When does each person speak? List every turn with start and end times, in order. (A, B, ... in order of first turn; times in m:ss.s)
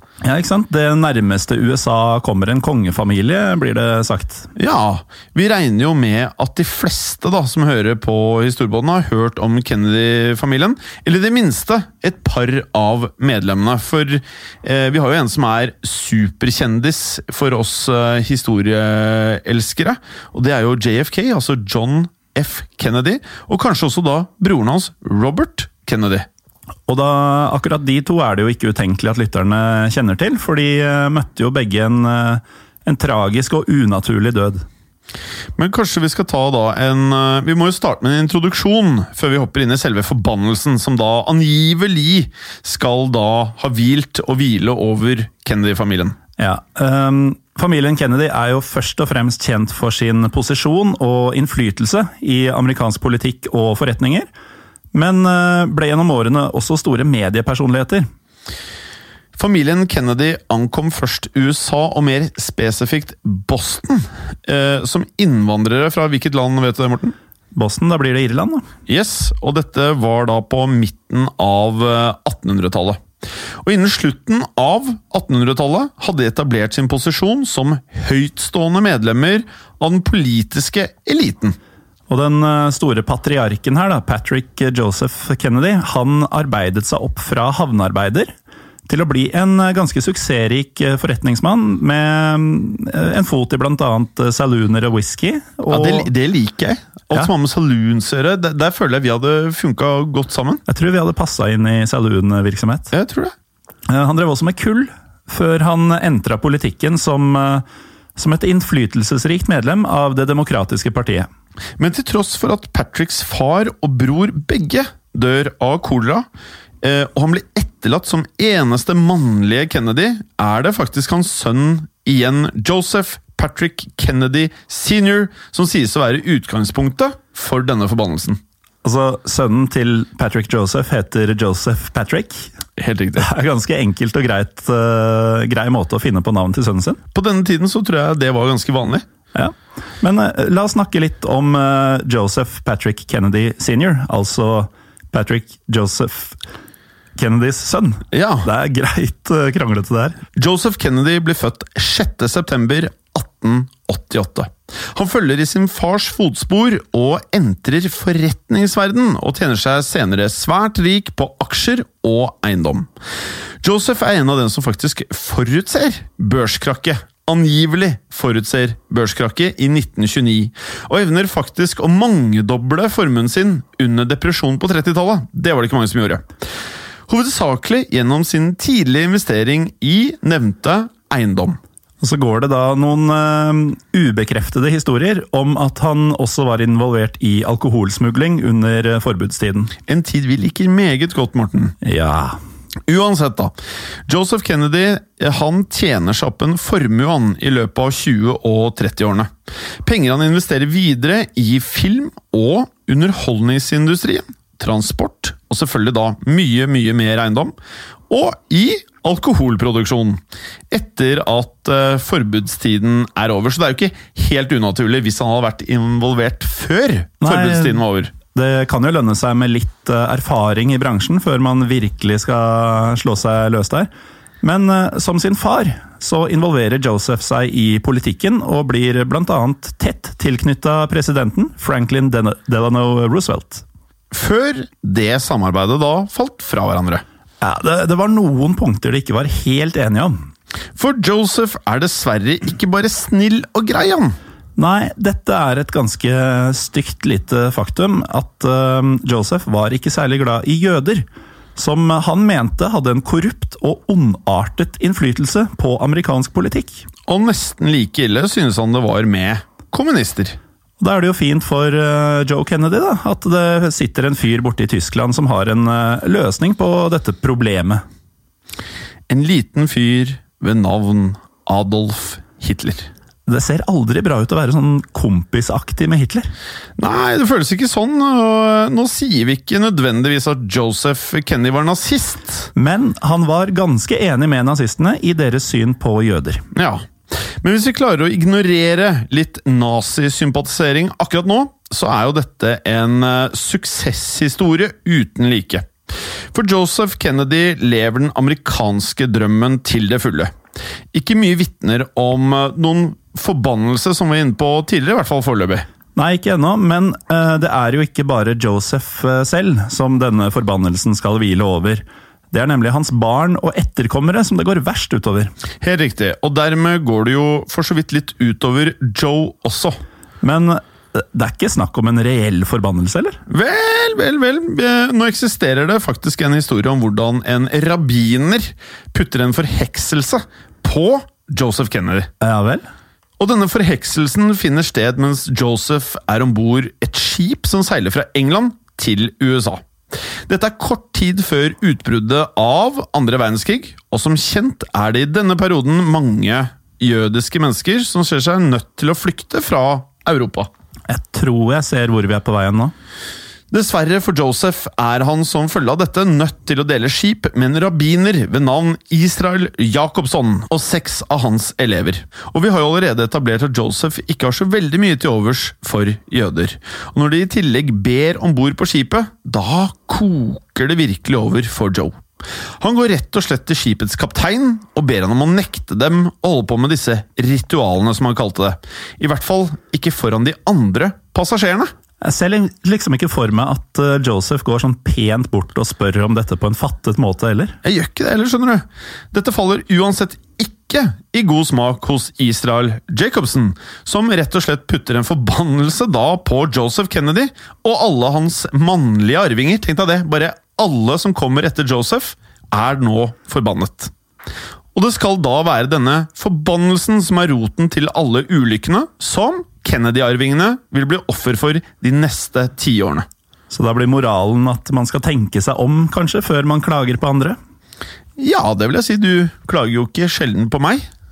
0:00.2-0:04.5 A
0:04.6-0:26.3 B
0:26.9-0:34.6 A
0:35.6-0:46.2 B
0:46.4-0:54.3 A
0:54.9-0:58.1 A
0:59.4-1:07.1 B
1:07.5-1:08.6 A
1:08.9-1:13.0 B
1:13.6-1:21.6 B
1:22.1-1:28.3 A
1:28.9-1:36.1 A
1:35.7-1:40.6 B
1:40.7-1:42.9 A
1:42.9-1:43.3 B
1:43.9-1:47.6 A
1:48.2-1:51.3 A
1:51.8-1:56.2 B
1:56.8-2:08.4 B
2:08.8-2:12.5 A
2:12.8-2:13.3 B
2:13.2-2:17.0 A
2:17.1-2:19.0 B
2:19.3-2:26.4 A
2:27.2-2:30.2 A
2:28.1-2:28.5 B
2:30.4-2:42.9 B
2:43.6-2:56.3 B
2:57.1-3:01.6 B
3:02.0-3:09.7 A
3:09.9-3:11.7 B
3:11.8-3:12.4 A
3:12.9-3:13.5 B
3:14.1-3:19.3 B
3:19.8-3:27.5 B
3:28.1-3:30.2 B
3:30.7-3:38.1 B
3:37.2-3:43.9 A
3:44.4-3:53.6 A
3:54.1-3:57.0 B
3:57.4-4:00.3 A
4:00.8-4:04.2 B
4:04.6-4:16.8 A
4:17.1-4:20.4 B
4:20.8-4:27.8 A
4:29.1-4:32.9 B
4:33.3-4:36.3 A
4:36.8-4:42.5 B
4:42.5-4:46.4 A
4:46.5-5:00.3 B
5:00.9-5:05.6 B
5:06.0-5:15.3 A
5:15.6-5:19.7 B
5:20.2-5:23.2 A
5:23.3-5:32.1 B
5:32.2-5:32.7 A
5:33.2-5:39.6 B
5:40.3-5:50.5 B
5:50.9-5:52.7 A
5:53.5-6:12.0 B
6:12.6-6:21.7 B
6:22.0-6:27.6 A
6:27.6-6:43.9 B
6:44.7-6:53.0 B
6:53.5-6:57.4 A
6:58.2-7:00.8 B